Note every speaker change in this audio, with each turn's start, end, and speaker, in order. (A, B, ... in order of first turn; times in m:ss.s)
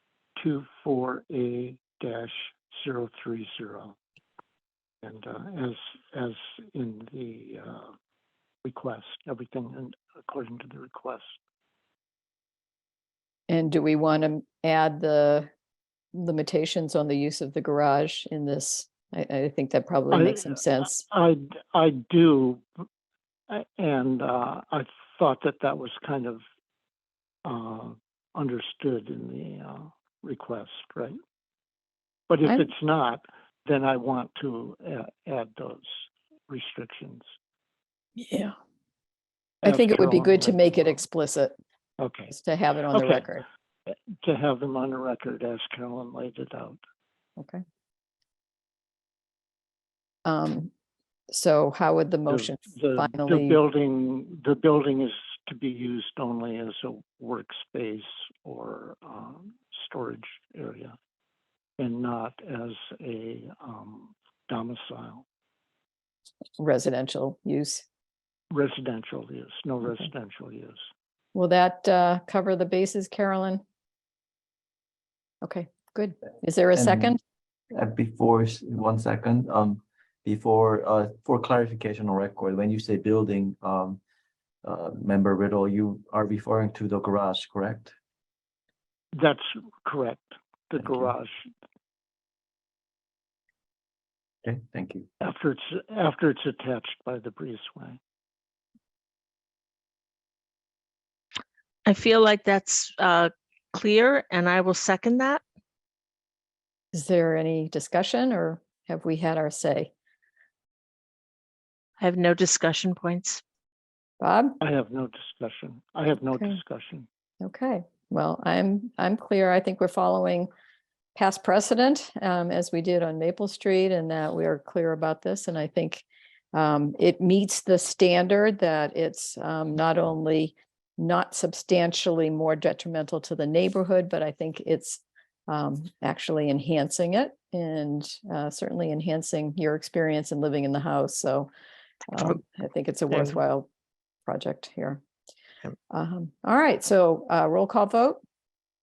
0:00.4-0:04.0 A
0:05.0-0:07.9 A
0:08.6-0:11.4 A
0:13.5-0:15.5 B
0:16.1-0:21.0 B
0:20.1-0:22.6 A
0:23.5-0:26.4 A
0:27.4-0:31.2 A
0:32.3-0:37.3 A
0:32.4-0:32.7 B
0:38.2-0:38.5 B
0:39.6-0:41.6 B
0:39.6-0:41.0 A
0:42.0-0:42.3 A
0:42.3-0:43.4 B
0:42.9-0:43.2 A
0:43.9-0:46.8 A
0:50.2-0:50.7 B
0:51.3-0:53.6 B
0:52.3-1:01.0 A
1:01.8-1:05.2 A
1:06.6-1:07.8 B
1:08.5-1:10.9 A
1:11.3-1:13.6 B
1:15.4-1:17.2 B
1:16.8-1:17.2 C
1:17.7-1:24.0 C
1:24.6-1:27.9 C
1:29.2-1:31.5 A
1:30.8-1:31.1 C
1:34.4-1:35.1 C
1:35.2-1:38.0 A
1:41.9-1:45.4 D
1:46.9-1:49.9 B
1:52.0-1:53.4 D
1:54.2-1:54.6 B
1:54.6-1:57.1 A
1:57.4-2:00.5 B
2:01.2-2:21.5 B
2:22.1-2:23.7 B
2:24.2-2:25.0 B
2:25.9-2:28.2 B